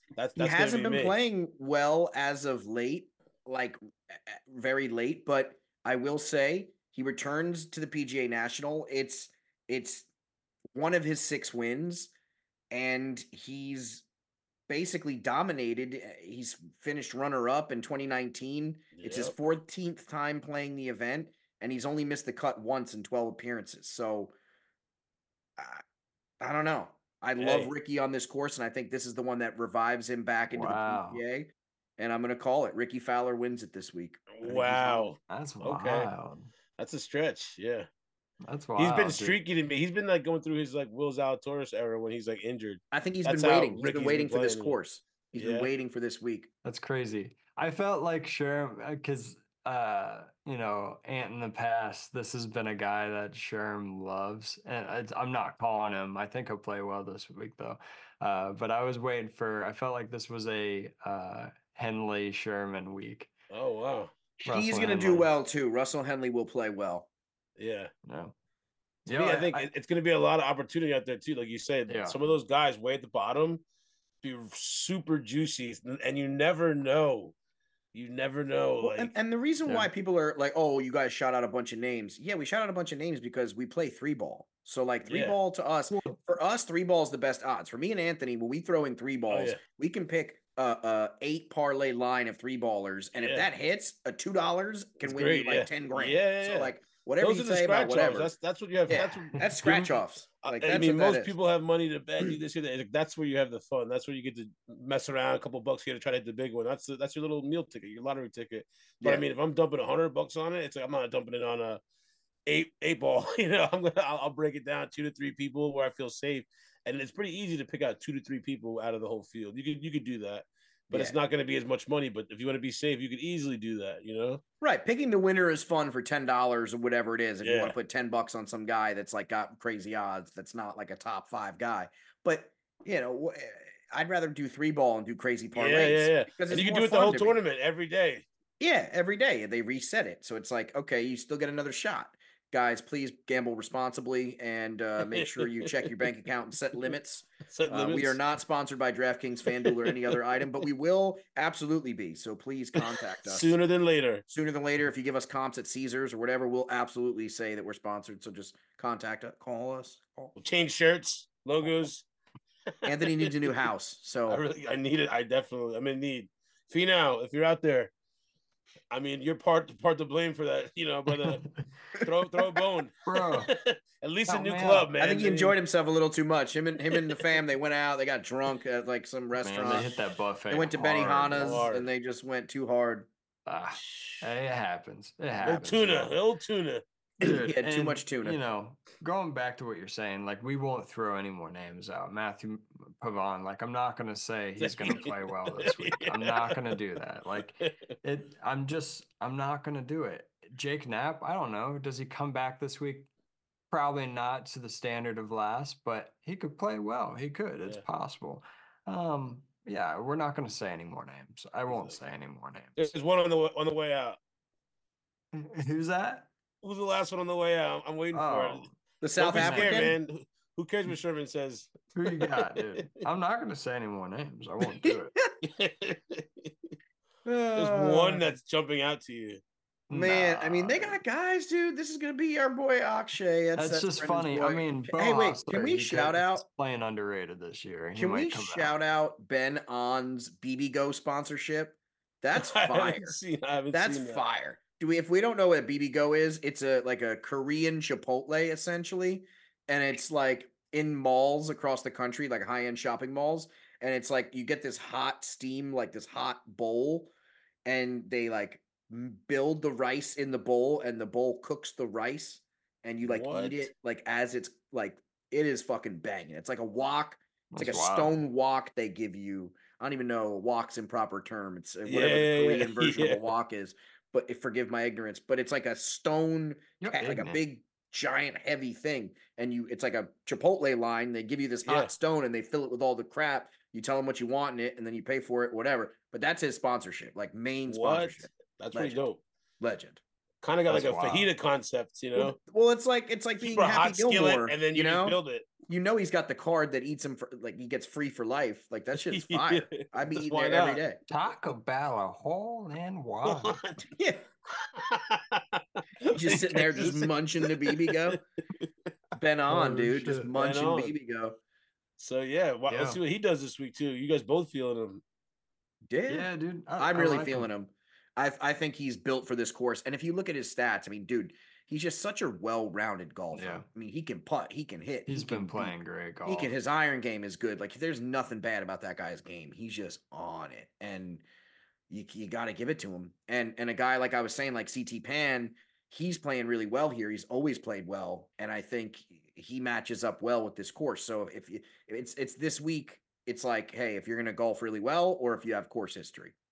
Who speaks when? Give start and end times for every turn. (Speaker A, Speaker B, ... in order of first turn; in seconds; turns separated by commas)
Speaker A: 0.1-1.1, Speaker B: 0.4-10.1, Speaker B: 10.7-12.1, Speaker B: 12.7-14.1, Speaker B: 14.7-24.3, Speaker A: 18.9-19.3, Speaker B: 25.6-25.8, Speaker B: 26.4-35.0, Speaker A: 27.4-27.7, Speaker C: 30.5-31.2, Speaker A: 34.3-36.1, Speaker C: 34.5-36.5, Speaker A: 36.8-37.9, Speaker C: 38.4-39.4, Speaker A: 38.8-44.8, Speaker B: 42.9-46.5, Speaker A: 45.4-45.7, Speaker C: 46.6-63.3, Speaker A: 63.5-64.1, Speaker B: 64.4-67.1, Speaker C: 64.5-65.3, Speaker A: 67.6-67.9, Speaker C: 68.0-68.3, Speaker C: 69.0-69.7, Speaker A: 69.1-73.6, Speaker C: 71.9-72.2, Speaker A: 74.2-77.3, Speaker A: 77.9-79.1, Speaker B: 78.8-98.3, Speaker A: 85.0-85.3, Speaker C: 85.9-86.2, Speaker A: 89.3-89.6, Speaker A: 93.2-93.5, Speaker A: 95.0-99.9, Speaker B: 98.9-101.3, Speaker C: 98.9-99.8, Speaker A: 100.4-111.8, Speaker A: 112.5-124.4, Speaker B: 124.6-137.4, Speaker A: 127.4-127.8, Speaker A: 135.5-138.2, Speaker B: 138.6-153.5, Speaker A: 145.1-145.9, Speaker A: 147.5-148.2, Speaker A: 149.6-150.2, Speaker A: 152.8-154.2, Speaker B: 154.3-160.3, Speaker A: 160.4-162.0, Speaker A: 162.8-163.5, Speaker B: 162.8-164.4, Speaker A: 164.3-167.9, Speaker A: 168.9-171.5, Speaker C: 171.2-171.5, Speaker A: 172.0-175.6, Speaker C: 173.1-173.5, Speaker C: 174.3-174.9, Speaker B: 175.0-179.9, Speaker C: 179.4-181.7, Speaker B: 180.5-183.1, Speaker A: 181.4-181.9, Speaker C: 183.4-186.1, Speaker A: 183.8-184.2, Speaker A: 185.4-186.8, Speaker B: 187.2-188.4, Speaker C: 187.2-203.1, Speaker A: 194.6-196.6, Speaker C: 203.7-212.9, Speaker A: 211.7-211.9, Speaker A: 212.8-214.2, Speaker C: 215.3-216.3, Speaker A: 216.6-218.7, Speaker C: 218.1-218.8, Speaker B: 219.0-220.0, Speaker A: 219.2-222.9, Speaker C: 219.3-219.9, Speaker C: 221.9-225.1, Speaker A: 225.4-226.7, Speaker B: 227.2-228.3, Speaker A: 227.6-229.4, Speaker C: 229.9-231.0, Speaker B: 229.9-236.4, Speaker C: 233.6-238.8, Speaker B: 237.9-243.2, Speaker A: 242.3-244.2, Speaker B: 243.7-257.1, Speaker B: 257.6-289.1, Speaker A: 263.0-263.7, Speaker C: 267.5-268.2, Speaker A: 271.9-273.2, Speaker C: 276.8-277.4, Speaker A: 281.6-281.9, Speaker A: 287.7-289.2, Speaker B: 289.6-290.0, Speaker A: 290.4-292.4, Speaker C: 290.7-291.3, Speaker B: 292.1-301.0, Speaker A: 293.4-295.5, Speaker A: 298.9-300.8, Speaker C: 301.1-303.6, Speaker A: 303.2-303.9, Speaker B: 303.9-304.2, Speaker A: 304.6-308.7, Speaker B: 306.1-308.2, Speaker B: 309.2-311.4, Speaker C: 309.5-310.3, Speaker A: 310.3-310.9, Speaker A: 312.0-315.0, Speaker C: 312.7-313.0, Speaker B: 315.9-331.2, Speaker C: 316.1-317.5, Speaker C: 323.3-323.6, Speaker C: 325.1-326.5, Speaker B: 331.9-346.3